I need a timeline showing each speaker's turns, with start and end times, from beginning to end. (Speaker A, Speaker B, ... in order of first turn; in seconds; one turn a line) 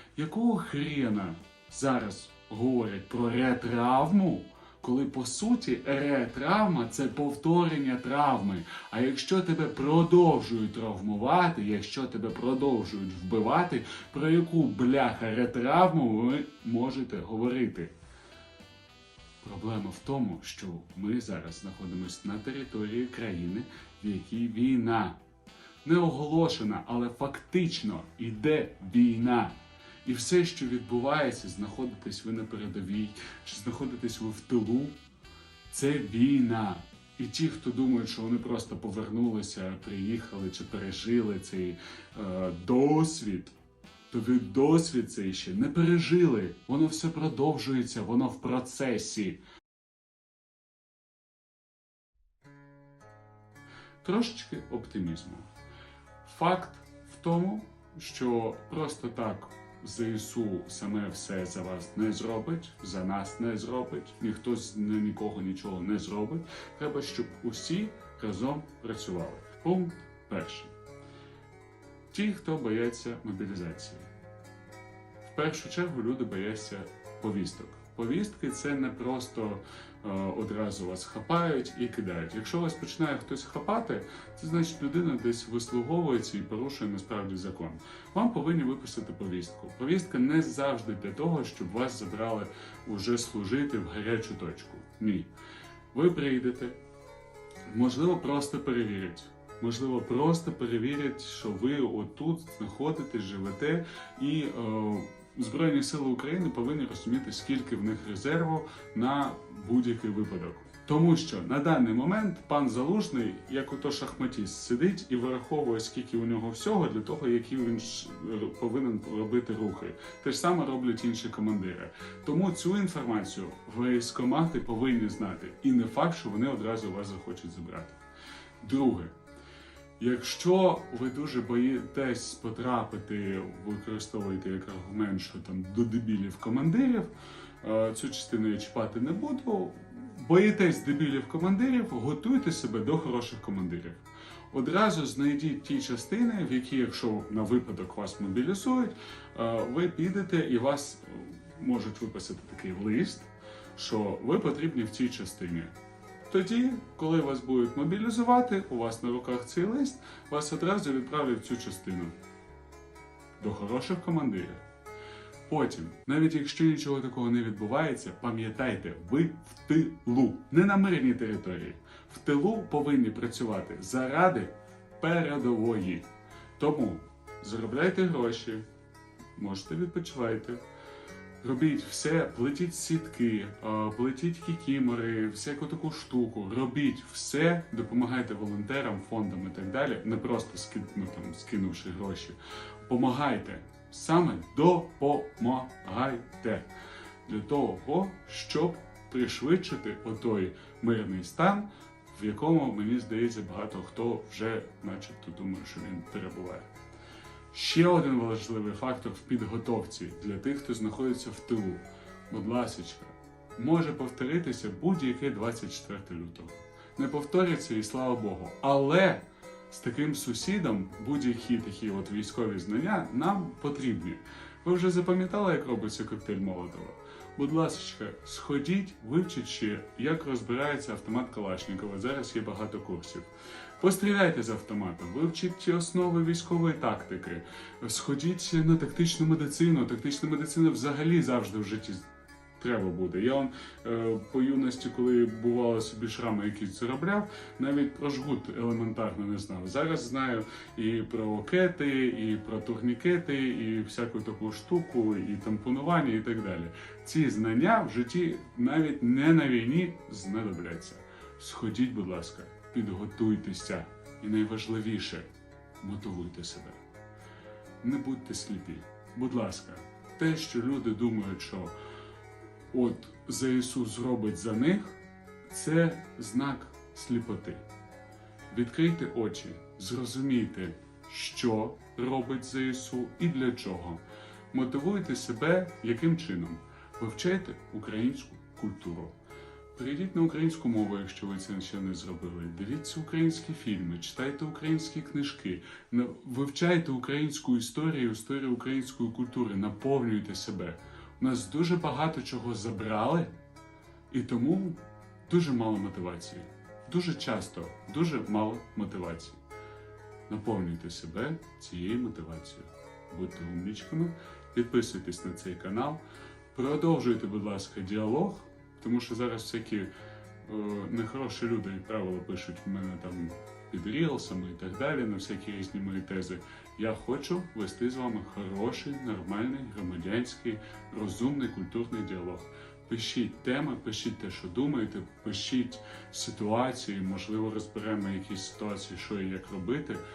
Speaker A: 0.1-17.9
Speaker A: 19.4-25.2
Speaker A: 25.8-35.0
Speaker A: 35.7-43.5
Speaker A: 44.1-49.4
Speaker A: 54.0-55.5
Speaker A: 56.2-70.7
Speaker A: 72.1-74.1
Speaker A: 75.2-95.3
Speaker A: 95.9-96.8
Speaker A: 97.7-128.0
Speaker A: 128.6-129.1
Speaker A: 130.0-155.7
Speaker A: 156.3-162.1
Speaker A: 163.4-164.6
Speaker A: 165.5-178.7
Speaker A: 179.3-180.6
Speaker A: 181.4-196.7
Speaker A: 197.2-206.7
Speaker A: 207.5-266.8
Speaker A: 267.8-271.7
Speaker A: 272.7-277.6
Speaker A: 278.5-289.1
Speaker A: 289.7-303.3
Speaker A: 304.1-309.4
Speaker A: 310.3-316.0
Speaker A: 316.5-319.9
Speaker A: 320.4-340.0